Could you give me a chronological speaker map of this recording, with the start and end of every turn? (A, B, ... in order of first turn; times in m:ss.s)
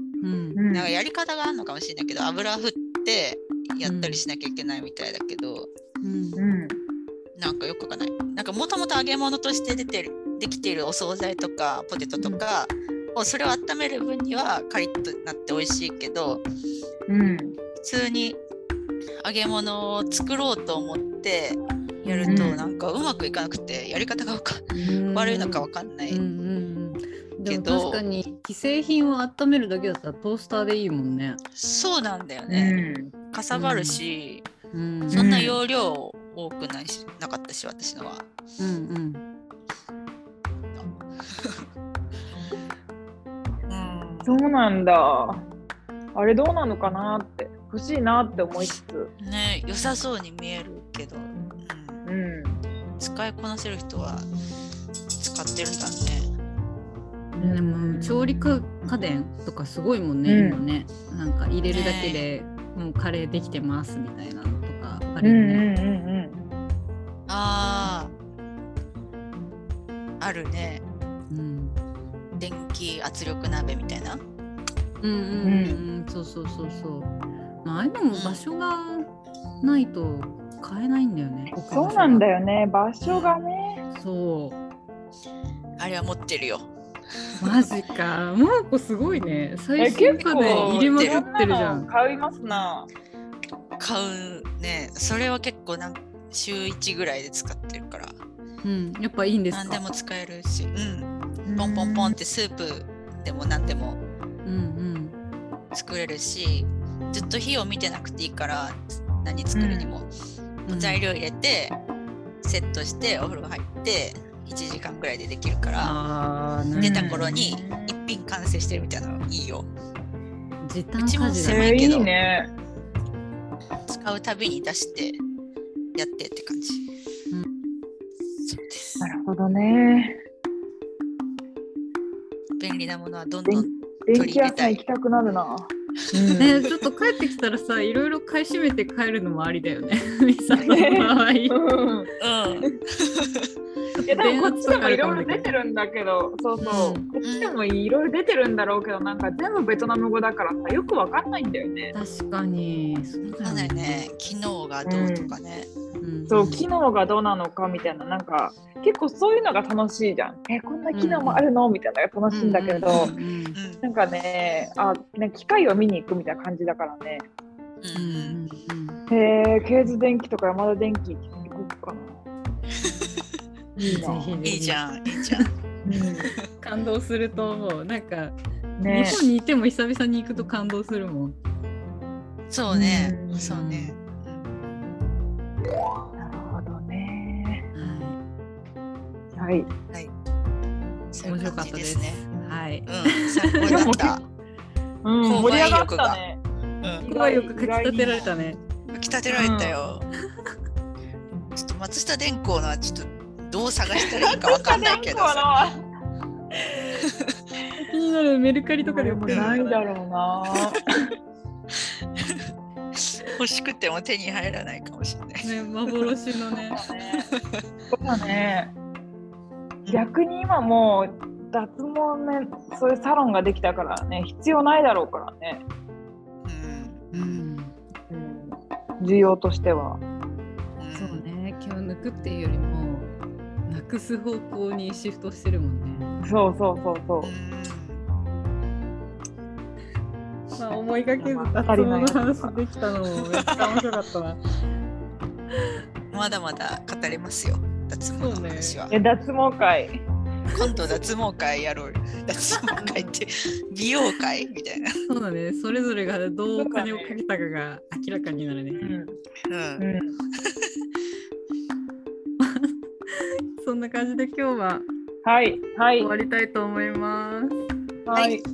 0:00.2-0:00.6 A
0:00.6-0:00.9 B
0:00.7-0:05.7 C
0:03.8-0:04.2 A
0:06.0-0:06.4 A
0:06.4-0:06.8 B
0:07.4-0:16.4 C
0:17.1-0:17.6 B
0:17.8-0:18.4 C
0:19.2-0:26.2 C
0:22.0-0:22.6 A
0:22.3-0:22.6 B
0:24.8-0:31.4 A
0:27.4-0:28.0 C
0:31.6-0:34.5 C
0:32.5-0:33.1 B
0:33.5-0:34.0 A
0:34.7-0:35.3 A
0:35.1-0:35.6 B
0:35.1-0:38.2 C
0:38.6-0:39.2 A
0:40.8-0:41.6 C
0:43.7-0:44.4 C
0:44.2-0:45.4 B
0:46.2-0:49.1 B
0:49.2-0:52.0 C
0:52.0-0:52.6 B
0:53.0-0:54.3 C
0:55.2-0:56.3 C
0:57.4-1:05.6 A
0:57.4-0:58.3 B
1:00.3-1:00.6 B
1:01.7-1:02.3 C
1:05.2-1:06.4 B
1:07.3-1:08.1 C
1:10.2-1:10.8 C
1:11.3-1:11.8 A
1:12.4-1:14.2 C
1:15.0-1:17.1 A
1:15.4-1:15.8 B
1:17.6-1:19.1 A
1:18.1-1:18.4 C
1:19.6-1:22.2 A
1:21.7-1:23.8 B
1:23.0-1:23.4 C
1:24.0-1:24.6 A
1:25.8-1:26.7 C
1:27.4-1:27.6 C
1:27.4-1:31.9 A
1:29.8-1:32.9 B
1:30.2-1:31.2 C
1:33.8-1:38.2 C
1:38.6-1:39.8 A
1:39.5-1:44.0 C
1:41.5-1:42.2 B
1:44.4-1:45.2 A
1:45.7-1:50.1 C
1:49.6-1:49.9 B
1:50.7-1:51.0 A
1:50.7-1:51.8 C
1:52.4-1:56.0 C
1:55.8-1:57.4 A
1:56.8-1:58.0 B
1:56.8-1:59.7 C
2:00.6-2:01.8 A
2:01.0-2:02.1 C
2:01.4-2:02.5 B
2:03.9-2:05.2 C
2:06.0-2:06.8 C
2:08.5-2:09.1 C
2:09.0-2:10.2 B
2:12.6-2:14.8 C
2:13.5-2:16.6 B
2:16.2-2:16.7 C
2:16.4-2:21.6 A
2:20.6-2:22.1 B
2:22.2-2:23.5 C
2:24.0-2:25.5 A
2:24.1-2:31.9 B
2:26.6-2:27.0 A
2:27.2-2:27.6 C
2:31.9-2:34.1 A
2:33.4-2:35.7 C
2:34.8-2:35.4 B
2:36.0-2:36.7 A
2:36.3-2:43.1 B
2:40.9-2:41.4 A
2:42.3-2:43.6 A
2:42.8-2:43.8 C
2:43.8-2:47.3 B
2:47.8-2:48.4 C
2:47.9-2:49.0 A
2:49.1-2:52.2 B
2:52.8-2:53.2 C
2:53.8-2:55.5 A
2:53.8-2:54.4 B
2:54.4-2:55.5 C
2:55.8-2:56.3 B
2:56.2-2:56.5 C
2:56.6-2:58.4 A
2:58.8-2:59.2 B
2:58.9-3:01.4 A
3:02.5-3:04.8 C
3:02.7-3:03.6 B
3:03.4-3:04.0 A
3:06.2-3:07.7 B
3:07.7-3:08.2 A
3:09.4-3:09.7 B
3:11.1-3:12.2 C
3:11.2-3:13.9 A
3:12.9-3:14.2 C
3:13.6-3:14.2 B
3:15.0-3:16.4 B
3:15.2-3:16.2 C
3:17.0-3:18.3 B
3:17.0-3:18.6 A
3:18.9-3:20.1 C
3:19.3-3:19.8 B
3:21.6-3:25.5 C
3:24.0-3:25.8 B
3:27.0-3:27.4 C
3:27.8-3:29.8 A
3:28.8-3:30.9 B
3:29.3-3:29.6 C
3:33.0-3:36.1 C
3:35.4-3:36.8 A
3:36.8-3:37.3 B
3:37.2-3:37.6 C
3:37.9-3:38.7 B
3:38.2-3:38.5 C
3:39.9-3:45.6 B
3:46.4-3:47.4 C
3:47.1-3:47.8 A
3:48.1-3:50.0 B
3:50.8-3:51.2 C
3:51.0-3:53.1 A
3:53.7-3:56.1 A
3:56.2-3:57.3 B
3:57.2-3:58.0 C
4:00.6-4:04.4 A
4:01.2-4:02.6 B
4:03.2-4:03.9 C
4:06.1-4:08.9 C
4:08.2-4:08.9 A
4:08.9-4:10.0 B
4:10.5-4:14.9 C
4:15.1-4:18.8 A
4:16.6-4:17.2 B
4:18.8-4:19.2 B
4:19.5-4:19.8 C
4:19.8-4:20.1 B
4:20.4-4:20.7 C
4:22.4-4:24.9 A
4:25.2-4:26.1 B
4:26.0-4:27.5 A
4:28.1-4:28.4 B